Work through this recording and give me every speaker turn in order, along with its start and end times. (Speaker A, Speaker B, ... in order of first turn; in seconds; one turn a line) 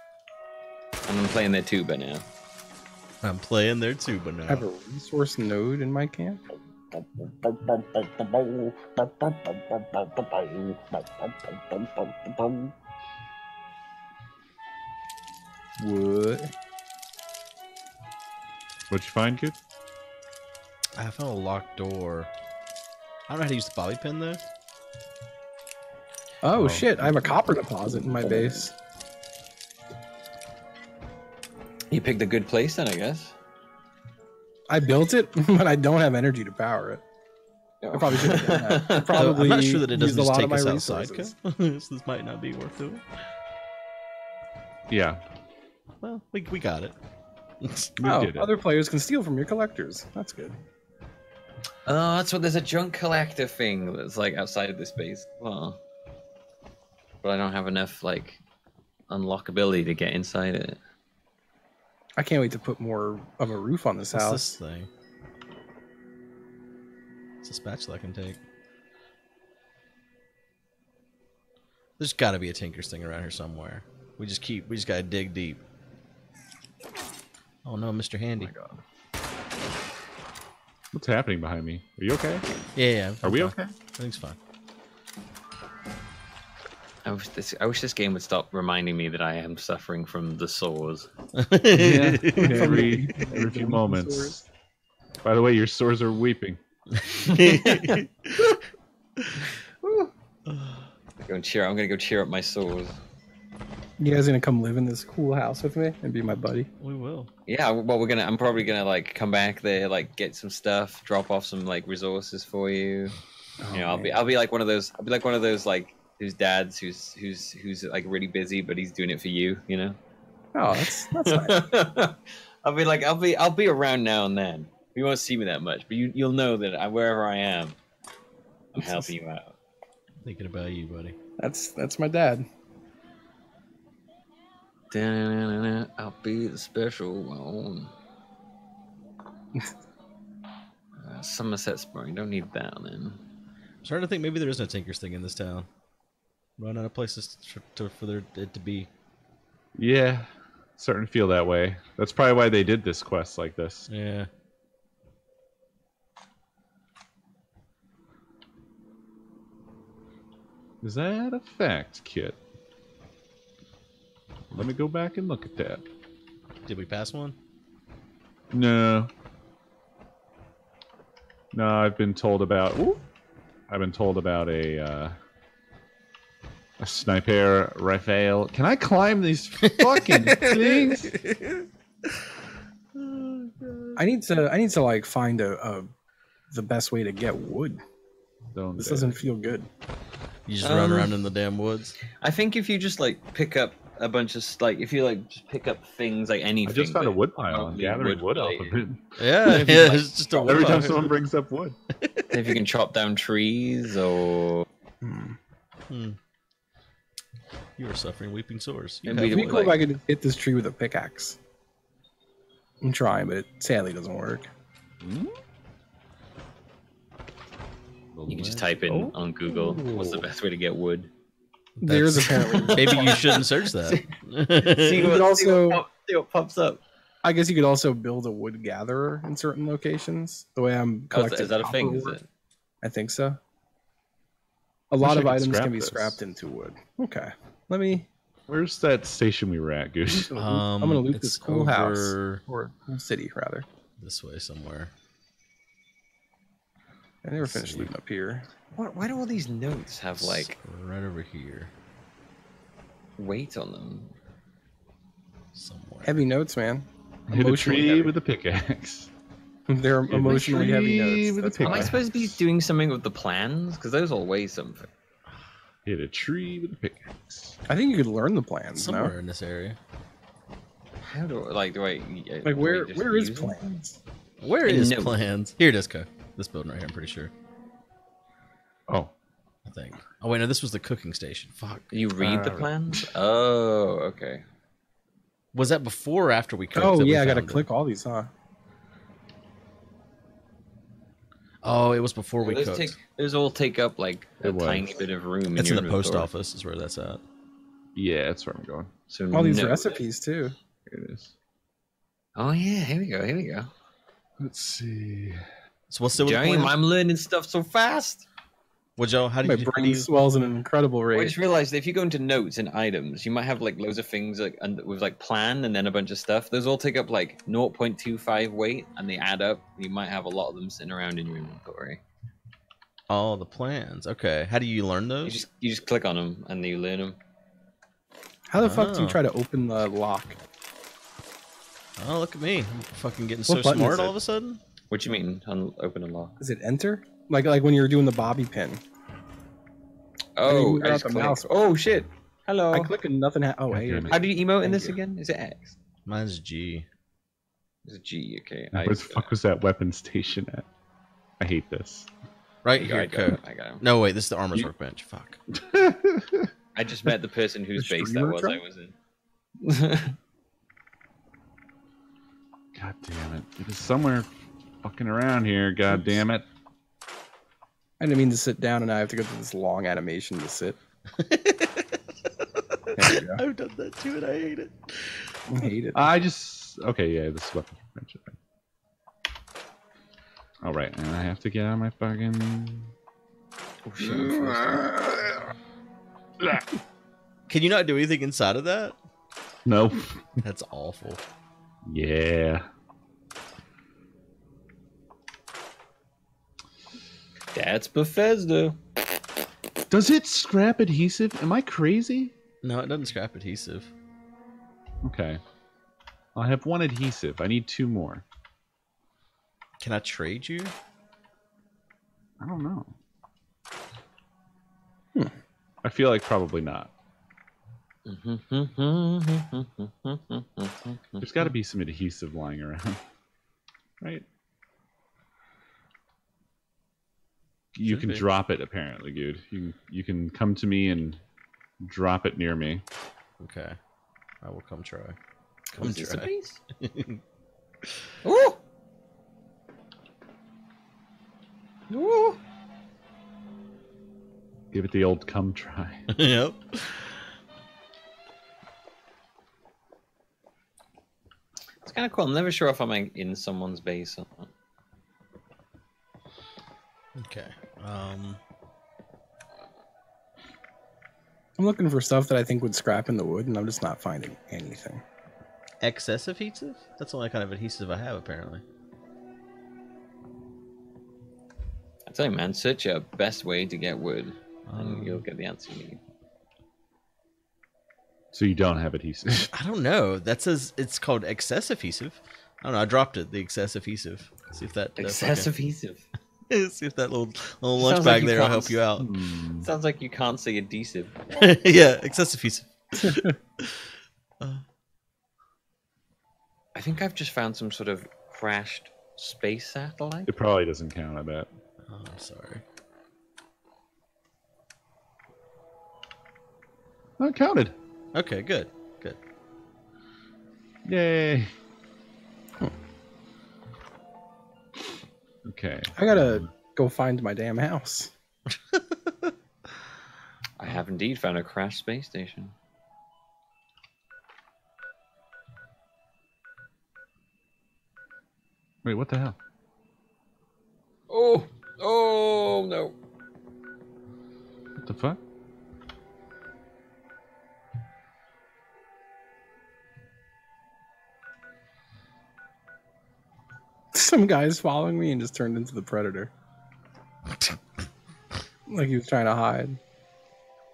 Speaker A: 1.1-2.2
Speaker B: 3.2-4.7
Speaker C: 4.5-6.4
Speaker A: 6.9-12.7
Speaker C: 15.8-16.5
Speaker D: 18.9-19.6
Speaker B: 20.9-22.3
Speaker B: 23.3-24.4
Speaker C: 26.4-28.7
Speaker D: 26.6-27.1
Speaker A: 31.9-33.3
Speaker C: 34.7-37.0
Speaker A: 37.8-39.3
Speaker C: 37.9-41.3
Speaker B: 39.1-43.0
Speaker D: 44.9-45.2
Speaker B: 46.0-47.0
Speaker B: 47.6-47.9
Speaker D: 48.0-48.5
Speaker C: 48.0-50.6
Speaker A: 51.9-55.8
Speaker A: 57.2-58.4
Speaker A: 59.1-60.8
Speaker C: 62.2-64.6
Speaker B: 64.1-64.9
Speaker B: 67.4-68.4
Speaker B: 72.0-75.6
Speaker B: 77.7-78.5
Speaker A: 78.4-78.8
Speaker D: 80.9-82.5
Speaker B: 82.8-84.4
Speaker D: 83.2-83.7
Speaker A: 87.0-91.1
Speaker B: 91.3-93.0
Speaker D: 91.7-94.4
Speaker C: 92.3-94.4
Speaker D: 95.2-96.6
Speaker B: 96.9-98.6
Speaker A: 97.3-98.0
Speaker B: 99.2-99.5
Speaker A: 99.8-100.1
Speaker B: 100.5-100.9
Speaker A: 101.2-103.0
Speaker C: 104.0-106.7
Speaker B: 106.8-107.3
Speaker A: 107.5-113.2
Speaker C: 113.6-114.2
Speaker A: 113.7-120.0
Speaker C: 120.5-121.7
Speaker A: 120.7-127.8
Speaker A: 128.7-129.6
Speaker C: 128.8-129.1
Speaker B: 130.2-131.2
Speaker C: 131.4-132.5
Speaker A: 134.9-137.9
Speaker A: 141.0-143.2
Speaker B: 143.8-145.7
Speaker B: 146.6-148.9
Speaker D: 149.8-153.9
Speaker B: 153.9-154.3
Speaker D: 160.8-162.4
Speaker D: 164.5-165.8
Speaker B: 166.7-167.3
Speaker D: 168.5-169.1
Speaker D: 171.5-173.0
Speaker D: 173.7-175.2
Speaker D: 176.8-181.1
Speaker B: 179.6-182.2
Speaker B: 182.9-184.0
Speaker C: 184.0-185.9
Speaker C: 186.5-187.8
Speaker D: 188.5-189.2
Speaker C: 188.8-189.7
Speaker B: 190.5-192.0
Speaker A: 190.6-191.1
Speaker A: 192.1-198.8
Speaker D: 196.7-201.8
Speaker B: 199.2-201.1
Speaker A: 200.3-201.1
Speaker B: 202.0-202.5
Speaker A: 202.3-204.7
Speaker C: 205.0-205.4
Speaker B: 205.9-206.2
Speaker B: 207.8-209.7
Speaker A: 209.1-209.8
Speaker C: 209.3-211.4
Speaker C: 212.8-214.5
Speaker D: 215.0-215.4
Speaker D: 218.1-219.1
Speaker A: 218.3-221.1
Speaker C: 219.5-219.8
Speaker D: 219.7-220.2
Speaker B: 221.8-225.1
Speaker C: 221.8-223.5
Speaker A: 222.5-226.8
Speaker C: 224.9-225.8
Speaker C: 227.2-232.2
Speaker A: 231.1-232.3
Speaker C: 232.8-233.4
Speaker C: 234.9-238.1
Speaker D: 235.0-236.2
Speaker D: 238.5-240.3
Speaker C: 240.1-243.7
Speaker B: 240.3-242.4
Speaker B: 244.0-244.9
Speaker C: 247.2-248.5
Speaker D: 247.5-247.9
Speaker A: 248.7-250.6
Speaker B: 250.2-251.7
Speaker A: 253.2-254.1
Speaker B: 255.5-256.2
Speaker C: 256.0-258.2
Speaker D: 257.3-259.1
Speaker C: 259.7-261.9
Speaker D: 260.1-262.4
Speaker A: 261.6-264.9
Speaker D: 265.9-267.6
Speaker C: 267.7-269.2
Speaker B: 268.8-269.8
Speaker A: 271.0-273.6
Speaker C: 272.4-274.0
Speaker B: 274.4-277.3
Speaker A: 274.7-275.2
Speaker B: 279.7-282.7
Speaker A: 281.9-284.4
Speaker B: 285.5-287.7
Speaker C: 286.8-288.3
Speaker B: 291.6-293.0
Speaker A: 292.4-296.3
Speaker D: 294.4-295.0
Speaker B: 295.6-297.2
Speaker D: 297.9-298.9
Speaker A: 299.1-300.0
Speaker C: 299.3-300.5
Speaker D: 300.9-301.3
Speaker A: 302.4-303.7
Speaker D: 304.4-305.4
Speaker B: 305.9-306.8
Speaker A: 306.2-308.3
Speaker B: 309.0-310.1
Speaker C: 309.4-311.4
Speaker A: 311.1-322.0
Speaker B: 323.1-325.4
Speaker A: 325.2-327.2
Speaker C: 328.5-330.4
Speaker B: 328.6-329.2
Speaker B: 332.0-334.6
Speaker C: 333.5-334.1
Speaker A: 334.9-336.3
Speaker C: 336.4-338.8
Speaker A: 340.4-342.9
Speaker C: 340.4-341.5
Speaker C: 342.7-345.0
Speaker D: 343.7-344.2
Speaker A: 344.1-345.8
Speaker B: 346.1-346.9
Speaker A: 347.9-349.3
Speaker D: 348.8-350.7
Speaker D: 351.4-352.1
Speaker B: 352.6-355.4
Speaker A: 352.8-353.8
Speaker D: 355.5-356.5
Speaker A: 356.8-358.9
Speaker C: 357.8-358.6
Speaker A: 359.6-360.1
Speaker D: 362.8-364.3
Speaker D: 364.8-366.5
Speaker C: 368.0-370.8
Speaker B: 371.1-372.0
Speaker B: 372.6-375.3
Speaker C: 373.0-373.4
Speaker C: 375.5-376.1
Speaker D: 375.9-378.4
Speaker D: 380.6-382.9
Speaker A: 383.9-384.9
Speaker D: 384.0-385.5
Speaker D: 386.4-386.7
Speaker B: 387.5-389.0
Speaker D: 389.6-390.4
Speaker B: 390.4-391.2
Speaker D: 391.9-392.7
Speaker A: 397.6-398.8
Speaker D: 399.9-402.3
Speaker B: 402.6-403.9
Speaker D: 405.0-405.4
Speaker D: 406.4-408.2
Speaker B: 409.8-410.7
Speaker D: 412.4-412.9
Speaker D: 415.8-416.9
Speaker A: 418.1-421.5
Speaker D: 421.2-423.0
Speaker D: 427.7-431.2
Speaker B: 427.8-428.3
Speaker D: 431.8-432.8
Speaker B: 433.4-433.8
Speaker B: 434.4-435.2
Speaker A: 435.7-436.6
Speaker B: 435.8-437.2
Speaker A: 438.2-438.6
Speaker A: 441.9-442.4
Speaker D: 444.7-446.1
Speaker B: 446.1-447.3
Speaker A: 451.8-454.5
Speaker B: 457.2-458.4
Speaker C: 461.6-465.0
Speaker B: 465.8-468.6
Speaker A: 472.1-476.0
Speaker B: 474.7-475.2
Speaker D: 478.3-479.5
Speaker B: 479.5-485.5
Speaker A: 485.0-486.1
Speaker B: 486.5-489.2
Speaker A: 487.8-488.8
Speaker D: 489.0-489.7
Speaker A: 489.6-491.2
Speaker B: 491.4-494.6
Speaker A: 496.8-500.3
Speaker D: 500.3-501.5
Speaker B: 501.9-502.6
Speaker D: 507.2-507.8
Speaker B: 508.1-509.2
Speaker D: 510.9-511.5
Speaker D: 515.5-516.5
Speaker C: 516.0-518.1
Speaker B: 518.7-519.3
Speaker A: 520.6-522.5
Speaker D: 528.8-529.4
Speaker A: 531.1-533.0
Speaker D: 534.8-535.2
Speaker C: 543.9-546.3
Speaker C: 548.7-549.8